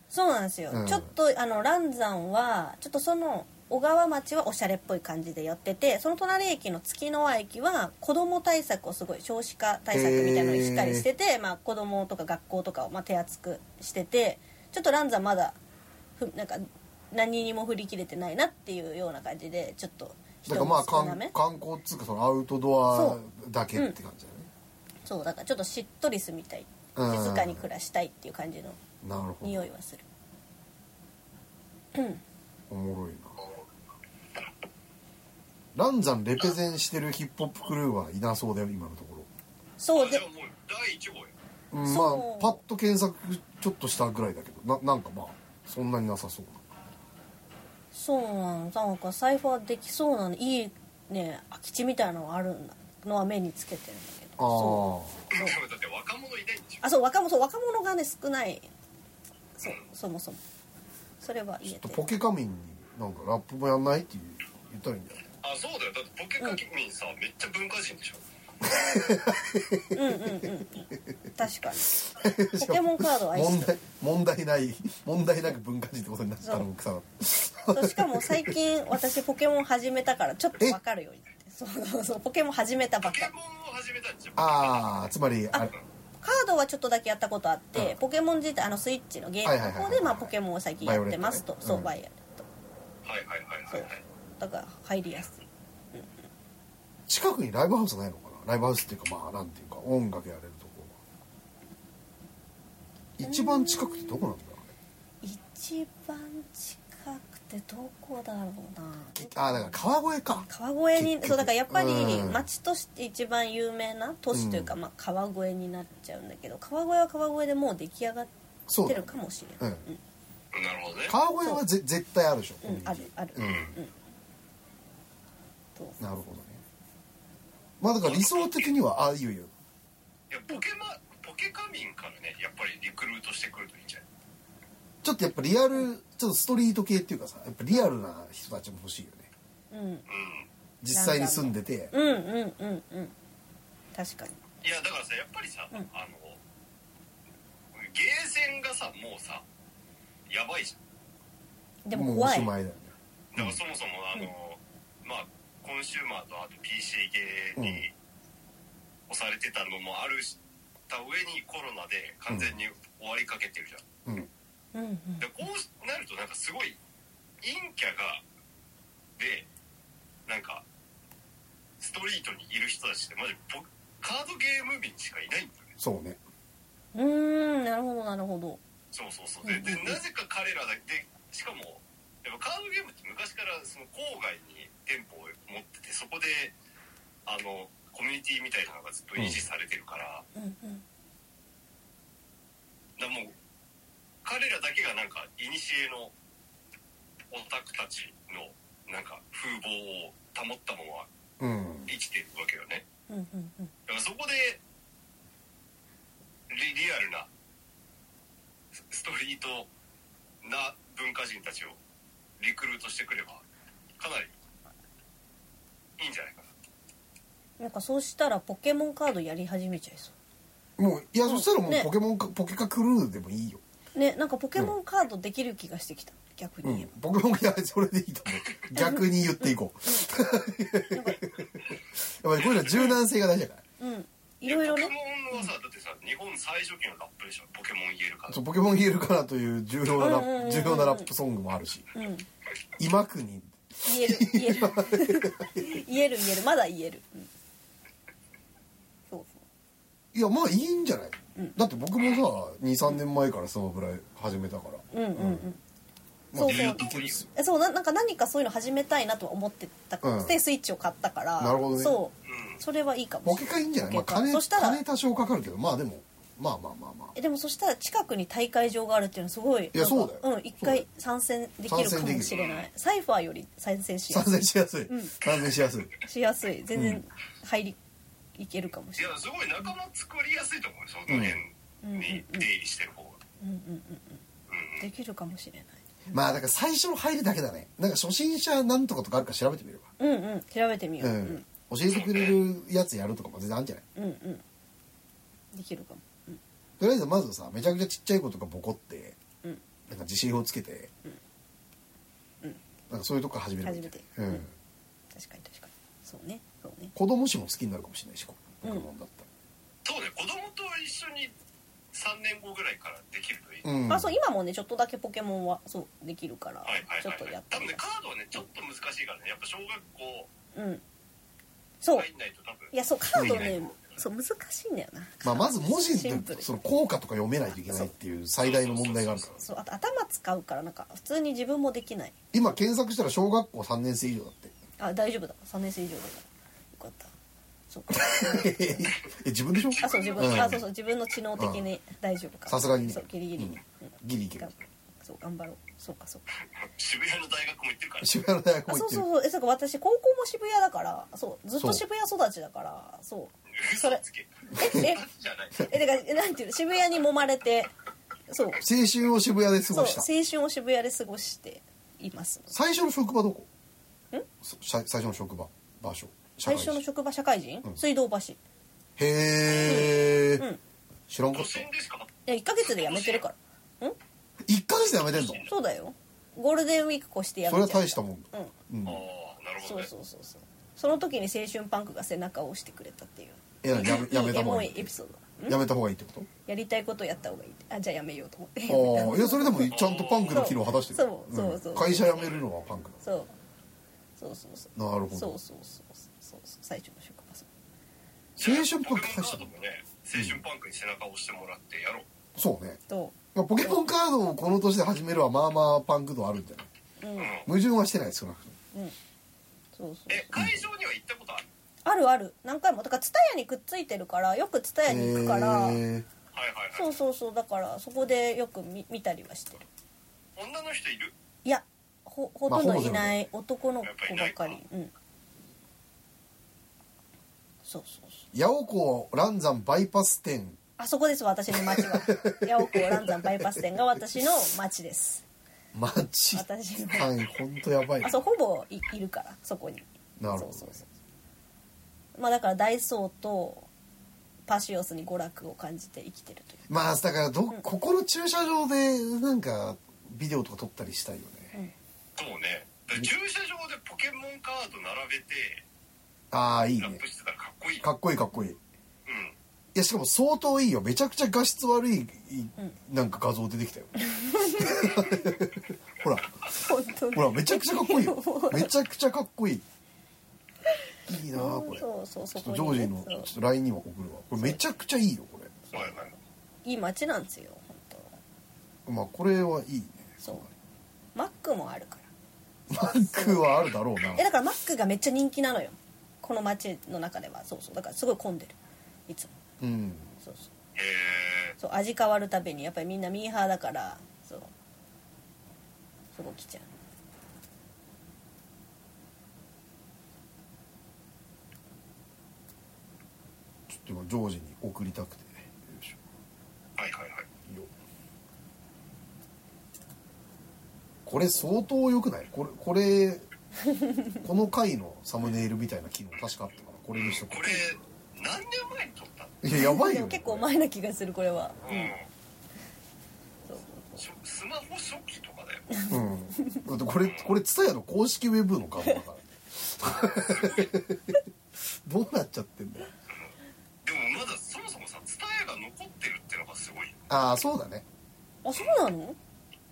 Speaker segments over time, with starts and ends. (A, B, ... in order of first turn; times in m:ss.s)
0:00.1-0:15.6 A
0:00.7-0:01.1 B
0:09.9-0:11.0 B
0:16.2-0:21.3 A
0:20.4-0:24.5 B
0:22.9-0:23.2 A
0:25.0-0:28.8 A
0:27.0-0:27.6 B
0:29.0-0:29.7 B
0:29.4-0:30.0 A
0:31.9-0:32.2 A
0:32.7-0:33.4 B
0:35.7-0:39.3 B
0:39.8-0:40.2 A
0:39.9-0:41.3 C
0:41.7-0:46.6 B
0:41.8-0:42.6 A
0:47.9-0:55.6 A
0:54.4-0:55.2 B
0:55.3-0:56.8 C
0:56.8-0:58.7 A
0:59.6-1:00.4 A
1:01.2-1:02.1 A
1:01.6-1:05.2 B
1:05.4-1:08.2 C
1:08.6-1:10.6 B
1:09.9-1:13.7 A
1:12.0-1:18.5 B
1:17.7-1:23.3 A
1:23.0-1:25.0 C
1:24.4-1:25.7 B
1:26.2-1:32.4 A
1:29.4-1:31.9 B
1:33.0-1:34.0 C
1:33.7-1:36.1 A
1:37.1-1:40.9 B
1:43.2-1:44.7 B
1:43.2-1:44.3 A
1:45.2-1:58.3 A
1:49.1-1:52.4 B
1:54.3-1:54.7 B
1:58.7-1:59.8 B
1:58.8-2:00.0 A
2:00.5-2:01.1 C
2:01.1-2:03.7 B
2:02.6-2:03.9 A
2:03.4-2:03.7 C
2:05.8-2:06.0 A
2:06.0-2:06.6 B
2:07.8-2:09.5 B
2:08.0-2:08.7 C
2:10.3-2:14.0 C
2:15.0-2:19.3 B
2:19.7-2:20.0 A
2:20.1-2:20.5 C
2:20.8-2:21.9 B
2:20.9-2:23.1 A
2:23.9-2:24.4 A
2:24.6-2:26.4 C
2:27.7-2:29.4 C
2:30.3-2:30.8 C
2:31.8-2:32.5 A
2:31.9-2:33.6 B
2:33.3-2:37.9 C
2:37.6-2:37.8 B
2:39.1-2:40.4 C
2:40.9-2:43.8 C
2:42.3-2:42.6 B
2:44.7-2:45.4 A
2:45.2-2:46.8 C
2:47.4-2:48.2 C
2:49.2-2:49.5 C
2:50.2-2:50.6 C
2:51.8-2:55.8 C
2:55.8-2:56.2 B
2:56.9-2:58.6 A
2:58.9-3:06.5 C
2:59.4-3:00.0 A
3:07.2-3:10.2 C
3:09.2-3:09.4 B
3:10.3-3:10.8 A
3:13.0-3:13.3 C
3:14.2-3:16.1 C
3:17.3-3:21.1 C
3:21.4-3:21.9 B
3:21.9-3:22.8 C
3:23.1-3:23.7 A
3:23.9-3:24.6 C
3:26.5-3:27.3 C
3:28.7-3:29.7 C
3:30.4-3:31.8 C
3:32.4-3:33.4 C
3:34.0-3:34.3 C
3:36.0-3:36.5 C
3:37.6-3:40.1 A
3:40.8-3:43.6 B
3:41.2-3:41.9 A
3:43.9-3:46.9 A
3:46.6-3:53.6 B
3:48.7-3:50.1 A
3:50.9-3:51.2 A
3:52.5-3:52.8 C
3:53.8-3:55.5 A
3:54.4-3:58.4 C
3:58.3-4:01.9 B
4:00.0-4:01.1 A
4:01.9-4:02.2 A
4:02.8-4:05.8 B
4:03.8-4:07.3 A
4:09.1-4:09.4 A
4:10.1-4:15.4 B
4:14.9-4:15.6 A
4:16.3-4:17.3 B
4:16.3-4:24.8 A
4:16.4-4:17.2 C
4:20.0-4:20.4 B
4:21.4-4:22.0 B
4:22.2-4:22.6 C
4:23.2-4:27.1 B
4:27.1-4:35.1 A
4:29.7-4:30.8 B
4:31.7-4:32.3 B
4:32.3-4:32.7 C
4:34.1-4:35.9 B
4:36.0-4:37.8 A
4:36.7-4:37.0 B
4:38.4-4:39.2 A
4:39.0-4:43.2 C
4:41.1-4:41.4 B
4:41.8-4:42.5 A
4:43.4-4:44.2 A
4:44.5-4:44.9 C
4:44.8-4:45.8 A
4:46.1-4:49.9 B
4:50.0-4:51.4 A
4:51.0-4:53.8 B
4:51.9-4:52.4 C
4:54.0-4:54.4 A
4:55.5-4:56.4 A
4:56.8-4:59.2 B
4:59.9-5:00.9 B
5:02.9-5:04.5 B
5:03.6-5:04.4 A
5:05.1-5:06.9 A
5:06.9-5:09.3 B
5:08.6-5:08.9 A
5:09.8-5:11.3 C
5:11.9-5:13.7 C
5:13.6-5:14.2 B
5:13.9-5:17.8 A
5:16.6-5:20.3 C
5:20.5-5:20.8 A
5:21.8-5:22.1 A
5:21.9-5:24.0 C
5:22.7-5:26.5 A
5:23.1-5:23.5 B
5:25.2-5:29.3 B
5:28.4-5:29.4 C
5:29.4-5:32.1 A
5:32.3-5:34.5 B
5:34.8-5:37.1 A
5:37.7-5:38.9 A
5:37.9-5:40.6 B
5:39.6-5:40.6 C
5:39.8-5:46.2 A
5:41.4-5:41.6 B
5:42.5-5:44.5 B
5:46.6-5:48.2 C
5:48.0-5:49.0 B
5:48.7-5:54.0 A
5:51.6-5:51.8 B
5:53.5-5:55.8 C
5:54.6-5:55.0 A
5:55.6-5:57.7 A
5:58.3-5:58.6 A
5:58.6-6:00.1 B
5:59.7-6:02.5 A
6:02.5-6:03.5 B
6:04.4-6:06.8 B
6:06.4-6:08.4 A
6:09.0-6:10.4 B
6:09.6-6:09.9 C
6:09.6-6:10.6 A
6:11.1-6:11.7 B
6:11.3-6:12.1 C
6:12.2-6:14.0 A
6:12.6-6:13.2 C
6:14.4-6:15.4 B
6:15.1-6:15.5 C
6:15.4-6:18.5 A
6:17.5-6:19.0 B
6:18.8-6:19.9 C
6:19.6-6:25.6 A
6:23.6-6:24.9 B
6:25.4-6:26.3 B
6:26.5-6:29.8 A
6:28.7-6:33.0 B
6:29.6-6:30.5 C
6:30.3-6:32.2 A
6:32.0-6:32.4 C
6:33.0-6:33.3 A
6:34.2-6:37.5 A
6:34.8-6:35.4 B
6:38.4-6:42.1 C
6:38.4-6:39.5 B
6:40.1-6:40.4 B
6:42.3-6:42.8 B
6:42.9-6:43.8 A
6:43.3-6:46.7 B
6:47.0-6:47.4 A
6:47.2-6:47.5 C
6:47.4-6:48.6 B
6:49.7-6:50.6 A
6:50.1-6:51.4 C
6:51.8-6:55.8 A
6:54.8-6:56.1 B
6:56.3-6:57.0 C
6:56.7-6:59.6 A
7:00.4-7:01.1 C
7:01.4-7:04.9 A
7:02.5-7:03.2 B
7:03.8-7:04.6 C
7:07.6-7:08.2 A
7:08.3-7:10.6 B
7:10.8-7:15.2 A
7:11.5-7:13.7 B
7:15.7-7:18.2 B
7:16.3-7:17.1 A
7:18.0-7:20.9 A
7:20.2-7:20.8 B
7:22.2-7:23.7 A
7:24.5-7:26.6 A
7:26.7-7:31.5 B
7:32.2-7:35.6 C
7:36.3-7:37.0 B
7:36.8-7:37.9 C
7:37.8-7:38.6 B
7:39.0-7:39.3 C
7:39.7-7:46.5 B
7:44.0-7:45.3 A
7:46.5-7:48.7 A
7:47.1-7:49.6 B
7:51.1-7:51.8 B
7:51.3-7:53.3 A
7:52.4-7:55.6 B
7:55.7-7:58.1 A
7:55.7-7:56.1 C
7:58.8-8:00.4 B
8:01.1-8:02.1 A
8:02.7-8:03.4 A
8:02.7-8:04.2 B
8:04.0-8:04.2 C
8:04.1-8:09.3 A
8:09.6-8:10.1 B
8:10.2-8:10.5 A
8:10.8-8:11.6 C
8:11.6-8:14.5 A
8:16.1-8:16.8 A
8:23.7-8:26.0 B
8:26.8-8:27.2 C
8:31.0-8:33.2 B
8:34.2-8:37.6 B
8:36.9-8:39.4 C
8:39.4-8:40.5 B
8:39.5-8:41.9 A
8:41.6-8:42.1 C
8:43.5-8:44.0 A
8:44.0-8:45.7 C
8:45.7-8:46.7 A
8:45.9-8:51.2 B
8:47.0-8:47.3 C
8:49.9-8:50.8 C
8:51.8-8:52.9 B
8:53.8-8:57.0 C
8:57.1-8:57.8 B
8:58.4-8:59.2 A
8:58.5-8:58.8 C